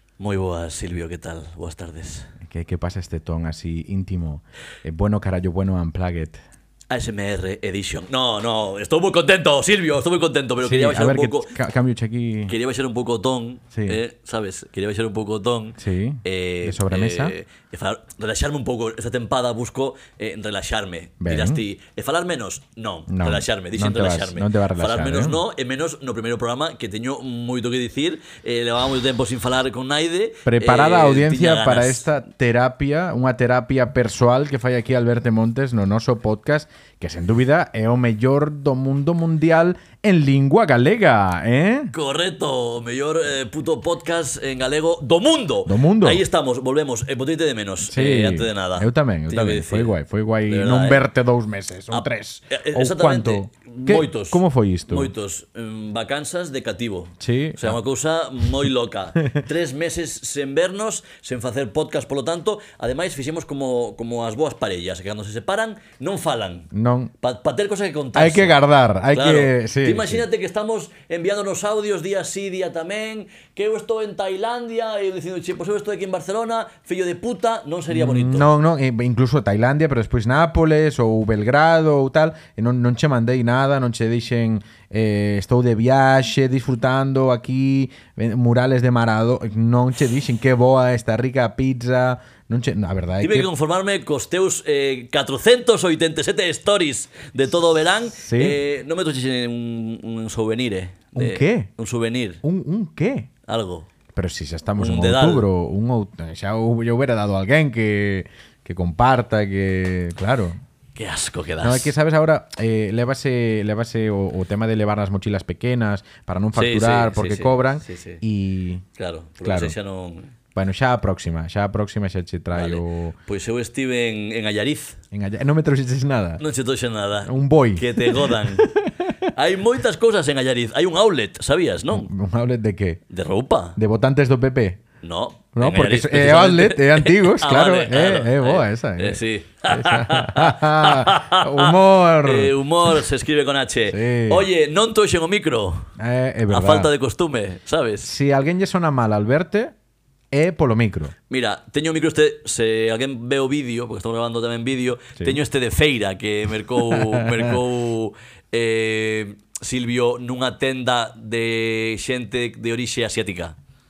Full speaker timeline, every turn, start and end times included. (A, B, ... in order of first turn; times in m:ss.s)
0:00.2-0:02.3 A
0:02.4-0:06.4 B
0:06.9-0:11.6 A
0:10.6-0:12.6 B
0:12.5-0:32.1 A
0:13.7-0:14.0 B
0:15.8-0:17.4 B
0:21.2-0:21.6 B
0:23.1-0:25.4 B
0:30.4-0:41.9 B
0:41.9-0:49.9 A
0:45.7-0:46.2 B
0:47.8-0:55.1 B
0:50.4-0:51.0 A
0:51.9-1:08.6 A
0:57.2-0:57.8 B
1:06.7-1:07.1 B
1:08.1-1:10.2 B
1:09.1-1:18.5 A
1:17.9-1:33.5 B
1:33.2-1:42.4 A
1:38.1-1:38.6 B
1:41.1-1:41.7 B
1:42.4-1:43.3 B
1:43.5-1:43.9 A
1:44.1-1:50.6 B
1:44.8-1:45.5 A
1:51.0-1:51.9 A
1:51.6-1:58.8 B
1:56.5-1:58.2 A
1:59.0-2:00.3 A
1:59.4-1:59.8 B
2:00.6-2:03.2 B
2:02.5-2:05.0 A
2:05.1-2:06.4 B
2:06.4-2:08.7 A
2:07.2-2:08.9 B
2:09.3-2:12.1 A
2:11.9-2:13.0 B
2:13.1-2:13.8 A
2:13.8-2:14.8 B
2:15.0-2:25.9 A
2:15.5-2:22.5 B
2:23.9-2:24.5 B
2:26.0-2:26.9 B
2:26.5-2:28.1 A
2:28.0-2:29.7 B
2:30.3-2:31.1 B
2:31.3-2:43.6 A
2:36.9-2:37.5 B